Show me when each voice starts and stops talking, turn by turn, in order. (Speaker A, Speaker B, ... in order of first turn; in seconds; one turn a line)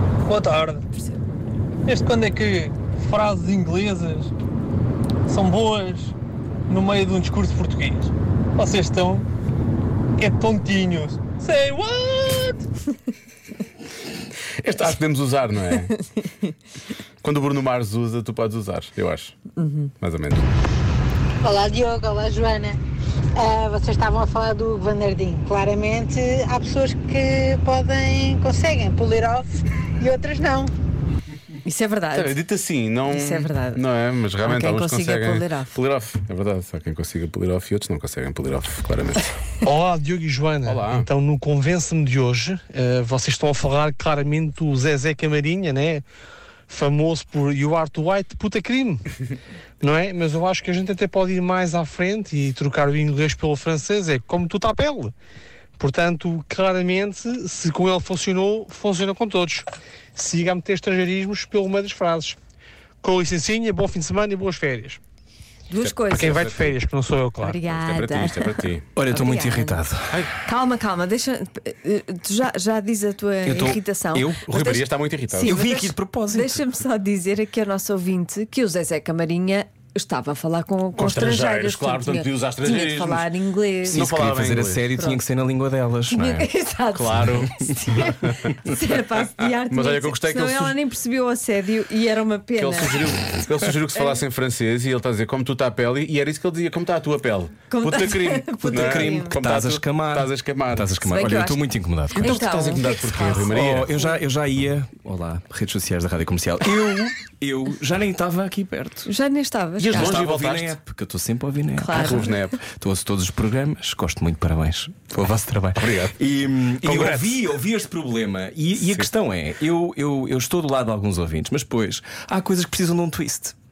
Speaker A: 0.3-0.8
Speaker A: 1.9-4.3
Speaker A: 5.3-6.1
Speaker A: 6.7-9.2
Speaker A: 10.2-12.5
Speaker B: 14.5-15.9
Speaker B: 17.2-19.4
Speaker C: 19.6-19.9
Speaker B: 20.0-20.5
Speaker D: 21.4-22.8
Speaker D: 23.4-30.7
Speaker C: 31.6-32.4
Speaker B: 32.1-39.2
Speaker C: 33.1-33.8
Speaker C: 34.4-35.7
Speaker E: 39.6-46.0
Speaker B: 40.6-41.1
Speaker E: 46.7-49.1
Speaker E: 49.8-55.1
Speaker E: 55.8-62.4
Speaker E: 63.0-65.0
Speaker C: 65.7-66.4
Speaker B: 65.8-66.8
Speaker E: 66.1-67.6
Speaker C: 67.4-69.8
Speaker B: 67.6-68.9
Speaker F: 69.0-70.3
Speaker C: 70.4-84.0
Speaker F: 73.5-74.5
Speaker B: 74.5-75.6
Speaker F: 75.4-76.7
Speaker B: 81.0-83.3
Speaker B: 83.8-84.9
Speaker F: 83.9-86.5
Speaker C: 84.9-85.2
Speaker C: 86.1-93.0
Speaker B: 86.9-88.2
Speaker F: 87.2-87.6
Speaker F: 88.4-88.7
Speaker B: 89.6-90.8
Speaker B: 92.6-100.9
Speaker C: 97.7-99.4
Speaker F: 98.6-109.1
Speaker C: 101.0-103.5
Speaker B: 102.1-104.0
Speaker C: 109.1-110.2
Speaker B: 109.8-110.8
Speaker F: 109.9-123.5
Speaker C: 111.8-112.4
Speaker B: 111.9-112.6
Speaker B: 115.8-116.2
Speaker B: 116.8-117.4
Speaker B: 118.8-119.1